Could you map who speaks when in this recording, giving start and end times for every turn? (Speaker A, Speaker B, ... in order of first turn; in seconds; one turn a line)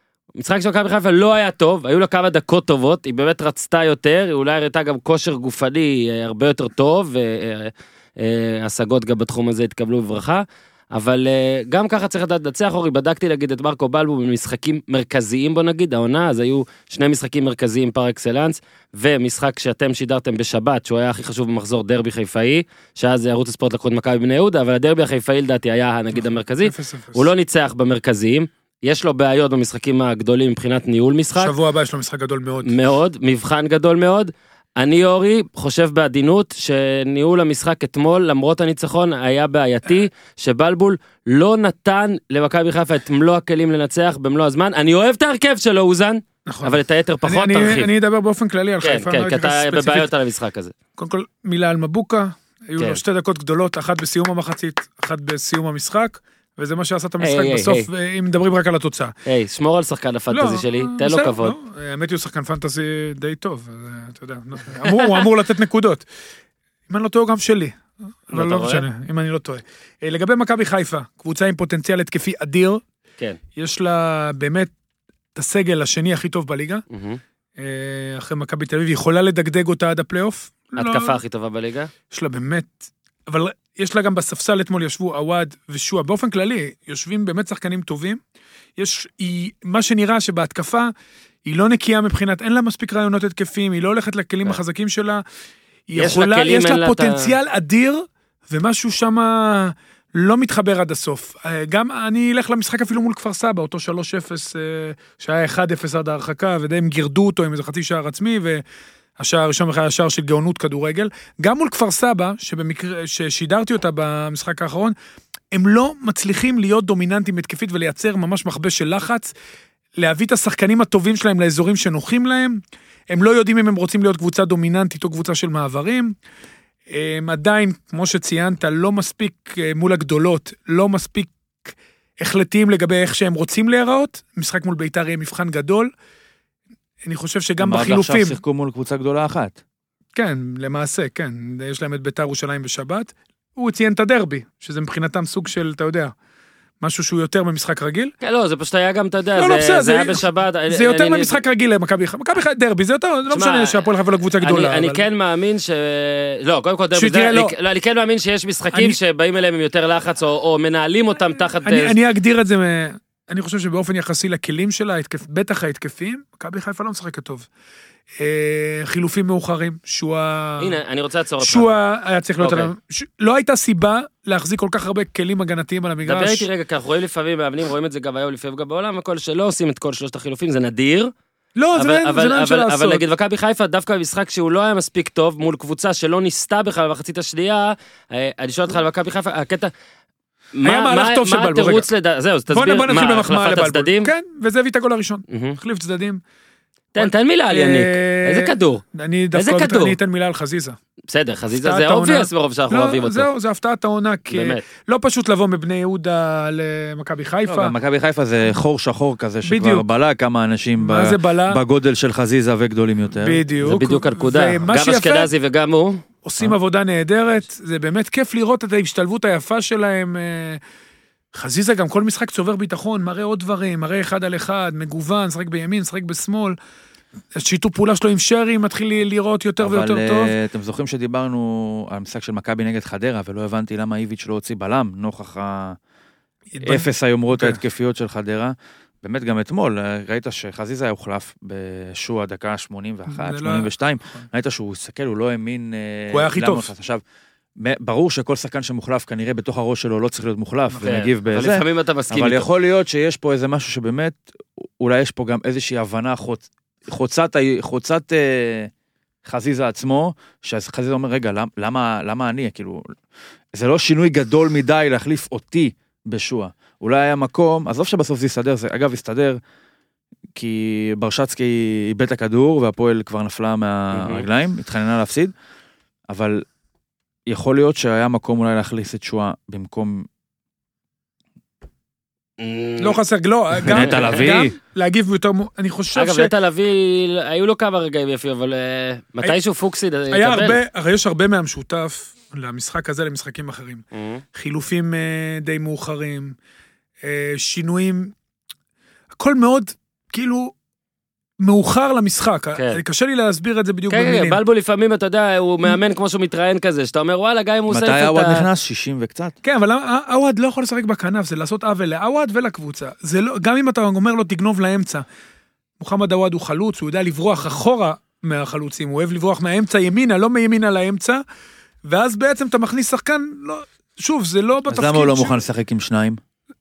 Speaker A: 0.4-31.5
Speaker B: 26.1-27.3
Speaker B: 31.4-32.7
Speaker A: 32.6-47.9
Speaker B: 46.5-50.1
Speaker A: 48.8-50.7
Speaker B: 51.0-59.1
Speaker A: 57.2-57.9
Speaker A: 59.2-61.5
Speaker B: 60.3-66.0
Speaker A: 64.9-65.2
Speaker B: 66.9-72.8
Speaker A: 68.3-68.8
Speaker B: 73.5-74.7
Speaker B: 75.3-76.8
Speaker A: 76.9-77.2
Speaker B: 77.6-81.2
Speaker A: 80.8-81.9
Speaker B: 82.1-88.2
Speaker B: 88.8-90.9
Speaker B: 91.4-95.2
Speaker B: 95.9-108.6
Speaker A: 96.0-97.3
Speaker B: 109.2-114.9
Speaker B: 115.5-119.3
Speaker B: 120.0-126.1
Speaker B: 126.9-135.9
Speaker B: 137.0-138.4
Speaker C: 137.6-139.6
Speaker B: 140.1-146.1
Speaker B: 146.8-148.1
Speaker A: 148.2-151.4
Speaker B: 149.4-155.0
Speaker A: 153.3-153.8
Speaker A: 154.4-162.0
Speaker B: 156.9-157.5
Speaker B: 158.7-159.0
Speaker B: 161.6-167.5
Speaker B: 168.2-170.8
Speaker A: 170.6-171.7
Speaker B: 171.4-176.5
Speaker A: 172.4-172.7
Speaker A: 176.0-181.1
Speaker B: 181.6-183.0
Speaker A: 181.8-189.7
Speaker A: 190.5-194.1
Speaker B: 190.6-191.9
Speaker B: 192.5-196.2
Speaker A: 195.3-195.6
Speaker A: 196.9-198.8
Speaker B: 196.9-200.8
Speaker A: 199.3-200.0
Speaker A: 201.1-203.3
Speaker B: 201.5-207.7
Speaker A: 204.3-204.6
Speaker C: 207.4-213.4
Speaker B: 209.4-209.8
Speaker B: 210.8-211.6
Speaker B: 213.2-215.3
Speaker A: 213.6-216.0
Speaker B: 216.2-220.6
Speaker B: 221.3-226.6
Speaker B: 227.3-230.3
Speaker C: 229.6-235.8
Speaker B: 236.5-237.6
Speaker C: 236.6-247.0
Speaker B: 243.1-244.2
Speaker B: 246.1-246.7
Speaker C: 247.6-254.2
Speaker A: 250.8-252.4
Speaker C: 254.8-258.7
Speaker C: 259.2-262.9
Speaker C: 263.5-269.4
Speaker C: 270.3-275.3
Speaker A: 273.9-274.2
Speaker C: 276.1-276.4
Speaker C: 277.2-280.1
Speaker A: 282.4-283.0
Speaker B: 282.8-286.3
Speaker C: 283.6-284.5
Speaker A: 283.6-284.4
Speaker A: 285.9-290.6
Speaker B: 290.1-296.3
Speaker A: 293.9-294.2
Speaker B: 297.0-298.1
Speaker B: 299.2-300.5
Speaker B: 301.4-304.4
Speaker A: 302.5-302.8
Speaker A: 303.9-308.4
Speaker C: 307.7-309.3
Speaker B: 309.4-315.0
Speaker B: 315.8-321.2
Speaker B: 321.8-325.4
Speaker C: 324.7-326.2